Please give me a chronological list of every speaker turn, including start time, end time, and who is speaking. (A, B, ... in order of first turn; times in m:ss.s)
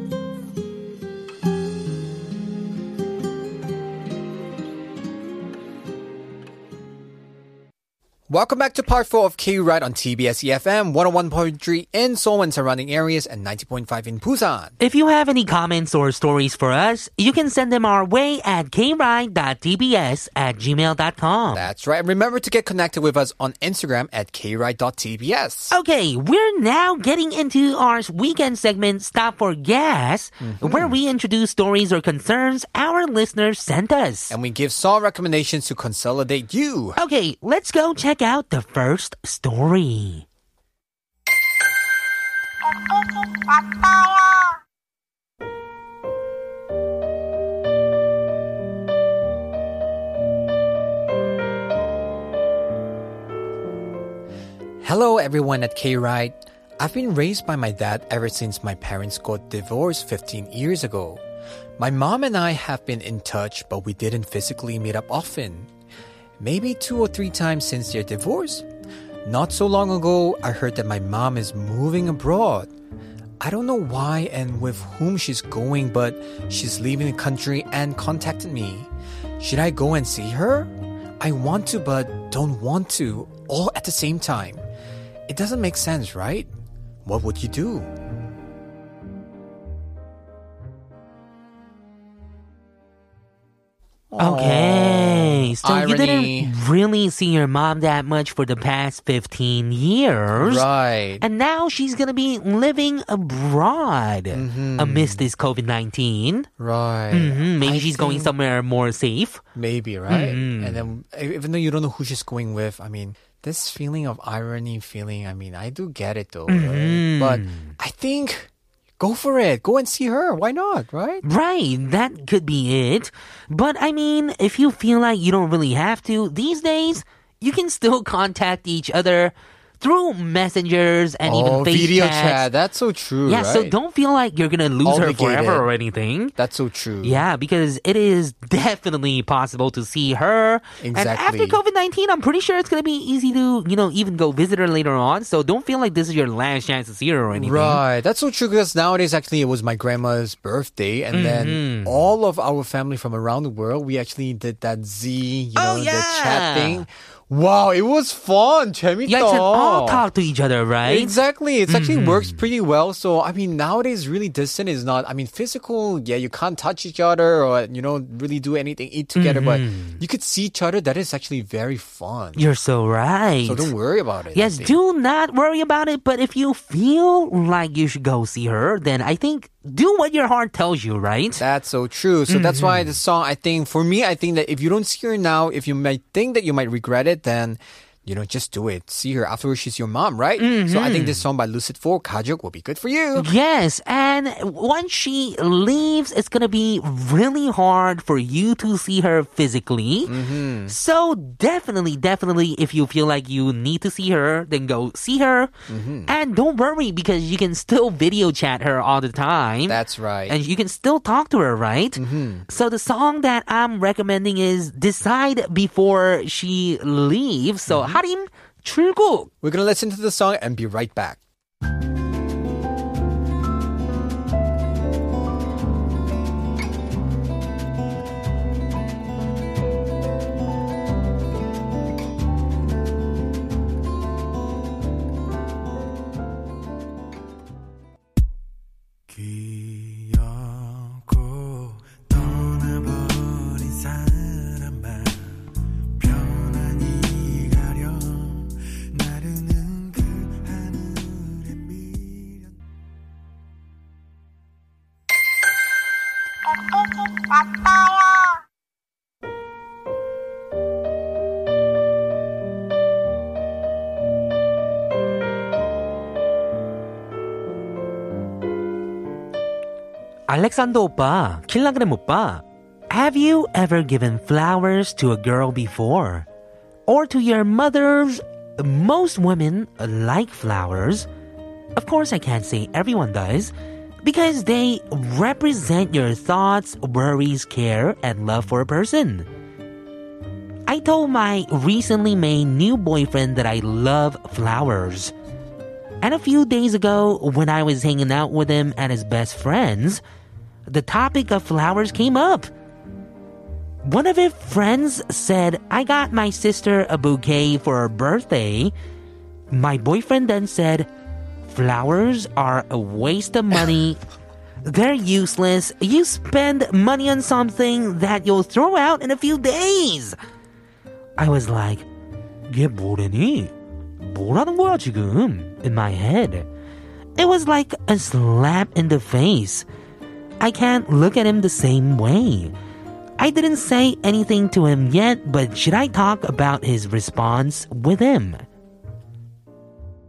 0:08.3-0:14.7 A
0:14.8-0:21.7 B
0:21.5-0:25.7 A
0:25.7-0:34.3 B
0:30.4-0:31.0 A
0:34.3-0:37.0 A
0:37.0-0:40.2 B
0:54.8-1:01.2 A
1:01.8-1:05.7 A
1:06.4-1:08.6 A
1:09.2-1:12.7 A
1:13.4-1:24.6 A
1:25.3-1:26.5 A
1:27.0-1:27.9 A
1:34.1-1:36.5 A
1:34.2-1:40.7 B
1:40.3-1:41.2 A
1:41.2-1:46.5 B
1:44.3-1:45.2 A
1:46.6-1:48.3 A
1:47.1-1:49.4 B
1:49.5-2:01.2 A
1:50.1-1:50.8 B
1:56.5-1:57.7 B
2:01.2-2:12.5 B
2:11.2-2:13.7 A
2:13.3-2:16.3 B
2:14.8-2:15.6 A
2:16.4-2:17.2 A
2:17.0-2:27.8 B
2:20.8-2:21.6 A
2:27.3-2:40.0 A
2:31.1-2:31.9 B
2:35.6-2:36.8 B
2:39.1-2:41.1 B
2:40.8-2:52.4 A
2:41.7-2:42.4 B
2:49.1-2:50.0 B
2:52.4-2:53.7 B
2:53.4-2:54.8 A
2:54.3-3:01.4 B
3:01.4-3:13.3 A
3:02.3-3:03.0 B
3:10.4-3:11.2 B
3:13.2-3:25.5 B
3:20.0-3:20.7 A
3:25.7-3:26.1 A
3:26.1-3:39.3 B
3:29.7-3:30.4 A
3:32.0-3:32.4 A
3:37.7-3:38.0 A
3:39.4-3:41.2 A
3:59.1-4:05.1 A
4:02.3-4:03.3 C
4:04.0-4:04.3 C
4:06.1-4:07.4 C
4:06.5-4:08.4 A
4:09.1-4:12.1 C
4:09.5-4:09.8 A
4:30.3-4:36.2 B
4:36.9-4:41.1 B
4:41.8-4:43.5 B
4:44.0-4:49.3 B
4:50.7-4:55.1 B
4:56.0-5:00.0 B
5:00.7-5:02.5 B
5:03.8-5:08.7 B
5:09.5-5:10.9 B
5:11.5-5:14.0 B
5:14.6-5:20.2 B
5:21.2-5:21.8 B
5:22.5-5:26.5 B
5:27.2-5:29.6 B
5:30.4-5:32.5 B
5:33.2-5:38.4 B